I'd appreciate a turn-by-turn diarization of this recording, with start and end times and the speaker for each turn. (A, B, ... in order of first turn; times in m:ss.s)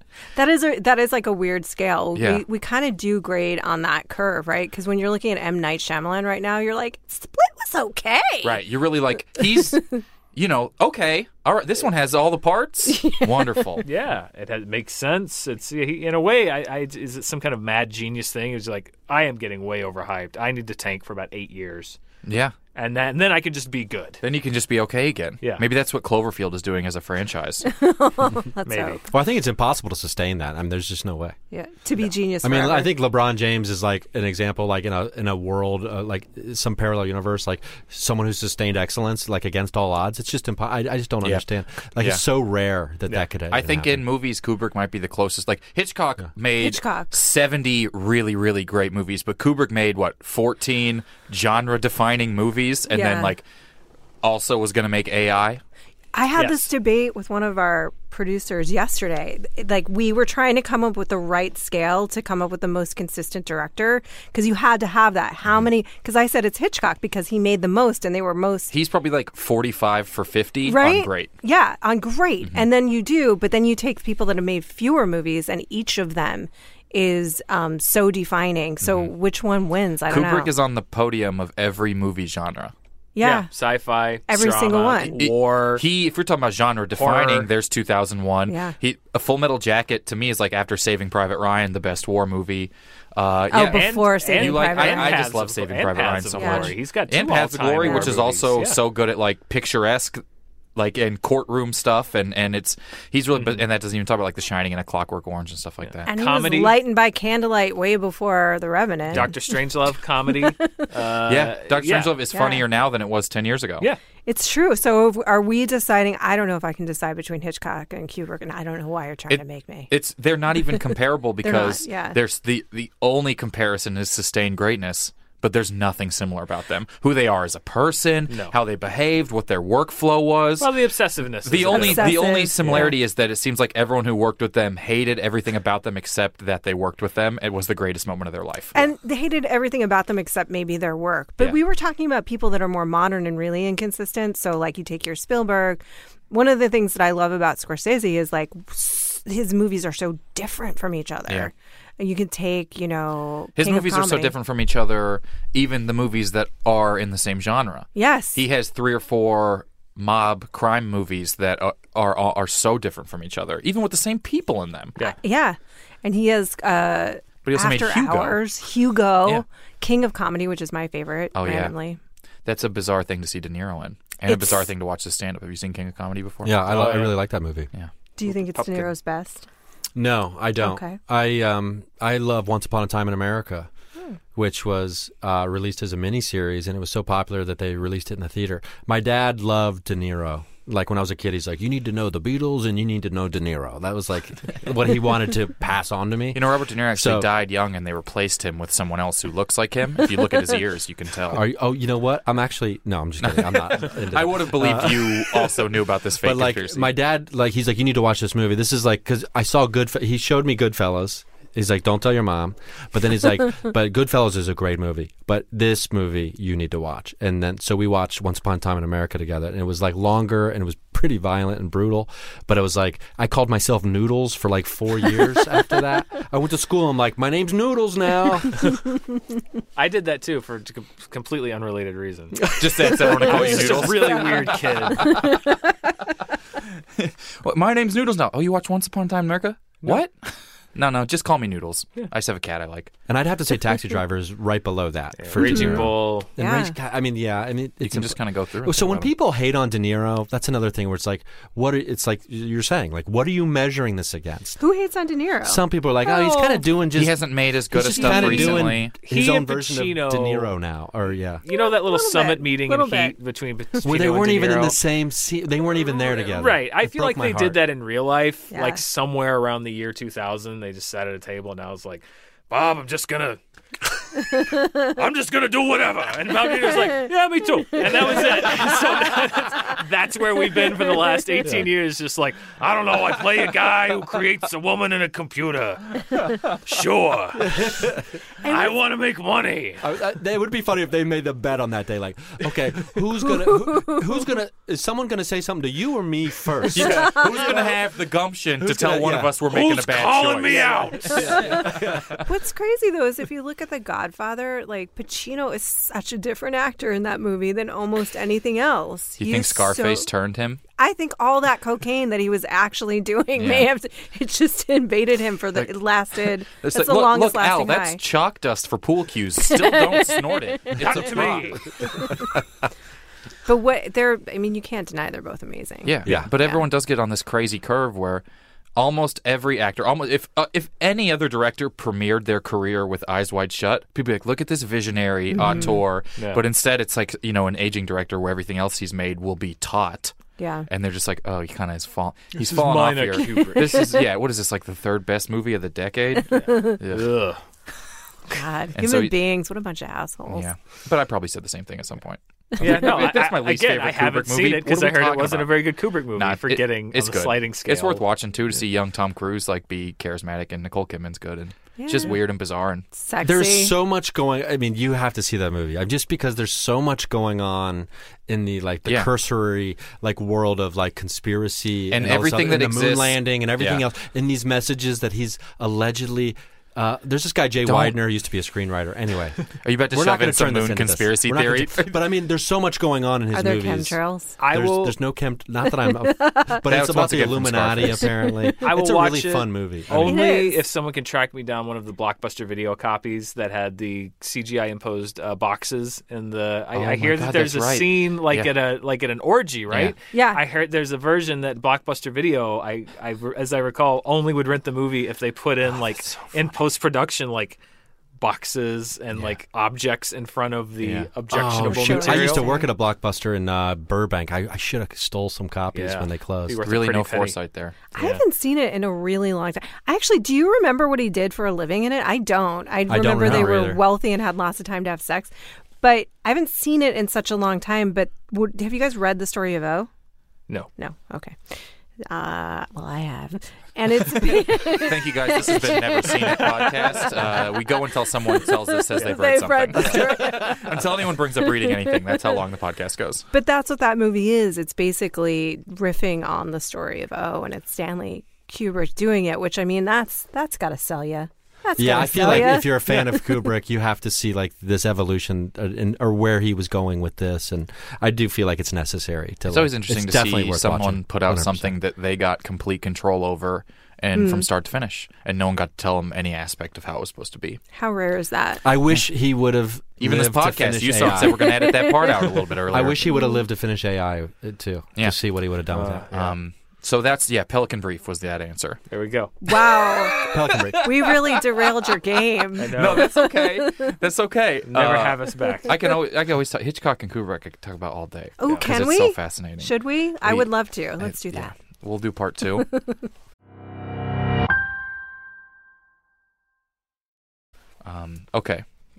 0:00.4-0:08.6 A
0:02.2-0:02.4 B
0:08.4-0:13.9 B
0:09.4-0:09.9 A
0:12.9-0:13.3 A
0:13.8-0:22.0 C
0:22.2-0:22.6 B
0:22.8-0:24.2 C
0:24.2-0:27.7 B
0:27.6-0:29.0 A
0:28.6-0:29.0 C
0:29.1-0:31.4 D
0:31.5-0:32.9 A
0:32.4-0:44.0 D
0:43.5-0:53.4 B
0:46.6-0:47.1 A
0:52.9-0:53.4 A
0:54.2-0:55.6 B
0:56.2-1:08.7 A
0:56.4-0:56.6 C
1:08.7-1:11.3 B
1:10.7-1:20.5 A
1:18.8-1:19.1 B
1:20.1-1:22.7 B
1:23.2-1:23.5 A
1:23.2-1:25.8 C
1:24.3-1:25.2 A
1:25.1-1:40.2 B
1:27.0-1:27.5 C
1:28.5-1:28.8 A
1:33.5-1:35.2 A
1:33.6-1:38.8 C
1:36.4-1:36.7 A
1:37.8-1:38.1 A
1:40.8-1:46.1 B
1:43.4-1:43.6 C
1:45.8-1:46.8 C
1:46.1-1:49.5 A
1:49.1-1:52.2 C
1:51.3-1:53.9 B
1:52.3-1:52.6 A
1:54.3-1:59.9 A
1:59.3-2:10.8 B
2:01.4-2:02.2 A
2:08.3-2:08.6 C
2:10.6-2:12.9 C
2:11.4-2:18.9 B
2:11.7-2:13.0 A
2:18.7-2:34.3 A
2:33.6-2:45.0 B
2:38.0-2:38.4 A
2:45.0-2:52.0 A
2:47.4-2:48.4 B
2:51.4-2:51.7 B
2:52.4-2:57.1 B
2:54.3-2:54.6 A
2:56.4-2:57.7 D
2:56.7-2:57.1 C
2:58.2-2:59.5 A
2:58.3-2:58.9 C
3:00.0-3:03.7 D
3:00.6-3:01.0 A
3:04.3-3:17.3 D
3:16.3-3:21.4 B
3:21.3-3:25.7 D
3:23.2-3:26.9 B
3:26.2-3:48.6 D
3:49.8-3:55.3 C
3:52.4-3:54.1 D
3:52.6-3:55.4 B
3:57.0-4:02.9 B
4:03.1-4:14.6 D
4:05.2-4:06.3 C
4:05.4-4:05.9 B
4:06.4-4:06.8 A
4:07.8-4:09.1 B
4:14.6-4:16.6 A
4:15.4-4:21.4 D
4:16.9-4:19.0 B
4:17.8-4:18.7 A
4:19.0-4:20.5 C
4:21.5-4:24.8 C
4:21.5-4:23.2 A
4:23.8-4:27.6 D
4:26.2-4:49.8 C
4:28.5-4:28.8 A
4:47.4-4:48.1 D
4:48.4-4:48.8 A
4:49.8-4:57.4 D
4:53.5-4:54.0 A
4:56.7-5:02.2 B
4:58.6-4:59.3 D
4:59.5-5:01.7 C
5:01.1-5:02.1 D
5:01.4-5:10.1 A
5:09.2-5:10.6 B
5:10.8-5:18.0 A
5:13.4-5:13.7 B
5:16.5-5:22.2 B
5:19.5-5:20.7 A
5:20.8-5:21.7 C
5:23.5-5:26.6 A
5:25.8-5:28.2 B
5:28.8-5:40.2 B
5:35.5-5:36.4 C
5:40.4-5:40.7 A
5:40.7-5:47.2 B
5:42.4-5:43.9 C
5:43.4-5:44.0 A
5:46.4-5:47.4 C
5:46.4-5:46.8 A
5:48.3-5:50.5 A
5:48.8-5:49.2 B
5:50.3-6:02.9 B
5:52.6-5:58.0 C
6:01.8-6:02.2 A
6:02.9-6:03.8 A
6:03.2-6:30.2 D
6:11.9-6:13.8 B
6:17.6-6:18.0 B
6:19.6-6:22.0 B
6:23.3-6:24.4 A
6:24.4-6:25.0 C
6:25.9-6:26.6 A
6:26.6-6:28.2 B
6:28.6-6:47.6 C
6:30.1-6:30.6 A
6:36.7-6:38.5 B
6:39.7-6:40.0 B
6:40.1-6:40.4 A
6:46.1-6:46.3 B
6:48.2-6:52.5 C
6:50.8-6:51.1 B
6:51.3-6:56.6 D
6:51.6-6:52.7 A
6:55.7-6:57.4 C
6:56.6-6:57.8 B
6:57.9-7:09.9 A
6:58.0-6:58.2 C
7:02.9-7:03.8 D
7:10.8-7:17.4 A
7:14.4-7:23.3 B
7:18.4-7:20.8 A
7:19.8-7:20.2 C
7:21.6-7:21.9 A
7:23.3-7:33.4 A
7:31.8-7:41.7 D
7:39.5-7:47.6 B
7:44.1-7:44.5 A
7:47.7-7:48.6 A
7:48.6-7:51.9 D
7:50.0-7:53.1 B
7:51.3-7:52.4 A
7:52.7-7:56.1 D
7:53.0-7:53.4 A
7:55.7-7:56.4 C
7:56.1-7:58.8 B
7:58.9-7:59.3 C
7:59.4-8:03.9 A
7:59.8-8:00.3 B
8:00.3-8:01.1 D
8:02.6-8:12.8 B
8:02.6-8:03.1 C
8:04.7-8:05.8 C
8:08.4-8:11.6 A
8:08.5-8:08.8 C
8:17.8-8:18.6 B